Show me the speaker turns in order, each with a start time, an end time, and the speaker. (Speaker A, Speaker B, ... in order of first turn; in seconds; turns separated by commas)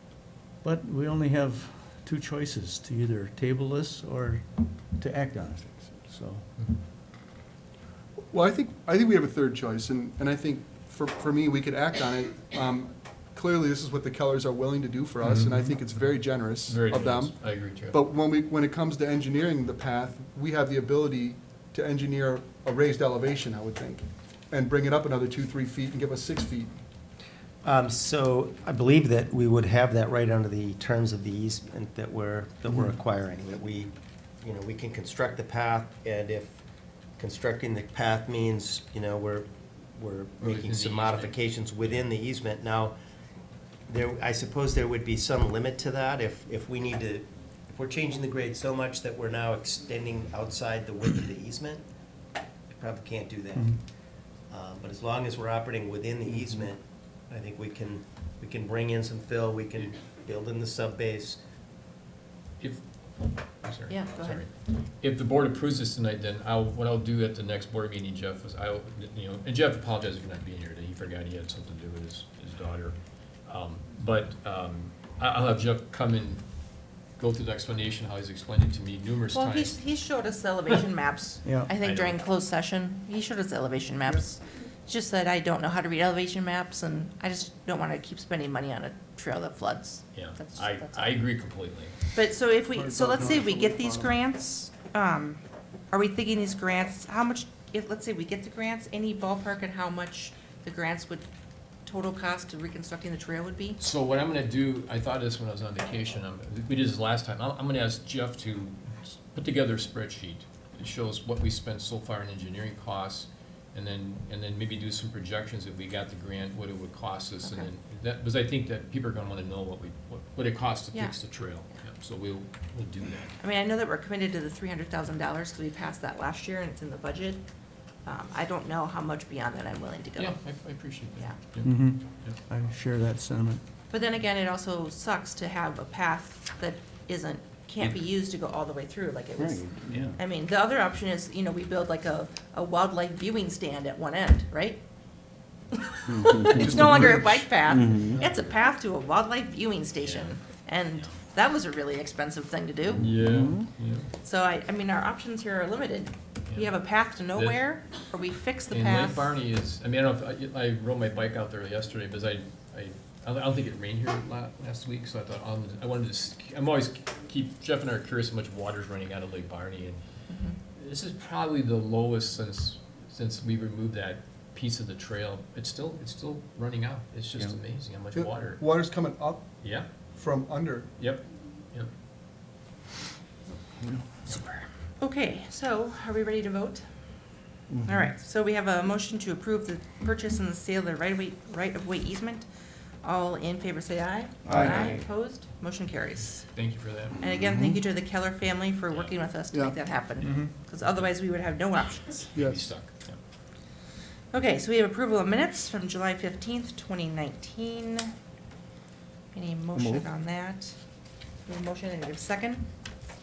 Speaker A: 0.6-6.5, Speaker B: 8.3-26.7, Speaker C: 15.2-15.7, Speaker C: 16.6-18.0, Speaker D: 27.6-36.6, Speaker D: 37.2-42.9, Speaker C: 40.4-42.0, Speaker D: 43.9-51.8, Speaker D: 52.7-53.9, Speaker D: 54.4-61.4, Speaker C: 62.6-76.5, Speaker E: 63.9-64.4, Speaker C: 77.2-79.8, Speaker E: 79.3-91.2, Speaker A: 81.5-81.7, Speaker C: 81.8-82.2, Speaker C: 90.1-92.0, Speaker E: 92.1-101.2, Speaker B: 92.7-94.2, Speaker E: 101.8-103.8, Speaker C: 103.8-108.8, Speaker C: 109.3-123.3, Speaker E: 120.9-121.5, Speaker E: 123.4-127.4, Speaker E: 128.1-130.4, Speaker C: 130.2-131.7, Speaker A: 131.6-133.6, Speaker E: 133.9-144.8, Speaker C: 139.9-140.1, Speaker E: 145.7-153.1, Speaker B: 146.5-148.3, Speaker C: 150.0-150.4, Speaker C: 152.9-154.1, Speaker E: 154.2-159.3, Speaker C: 156.5-156.7, Speaker C: 157.3-157.7, Speaker C: 158.7-170.1, Speaker E: 170.3-170.6, Speaker C: 170.8-178.6, Speaker B: 178.1-179.5, Speaker C: 179.6-179.9, Speaker B: 180.1-180.9, Speaker C: 181.0-181.9, Speaker E: 184.2-186.8, Speaker E: 187.8-192.5, Speaker E: 193.0-196.4, Speaker B: 194.5-194.9, Speaker C: 196.5-197.2, Speaker E: 197.2-202.3, Speaker C: 200.3-201.1, Speaker C: 202.3-203.2, Speaker B: 202.3-202.7, Speaker E: 204.3-208.1, Speaker E: 209.3-210.8, Speaker E: 211.5-212.7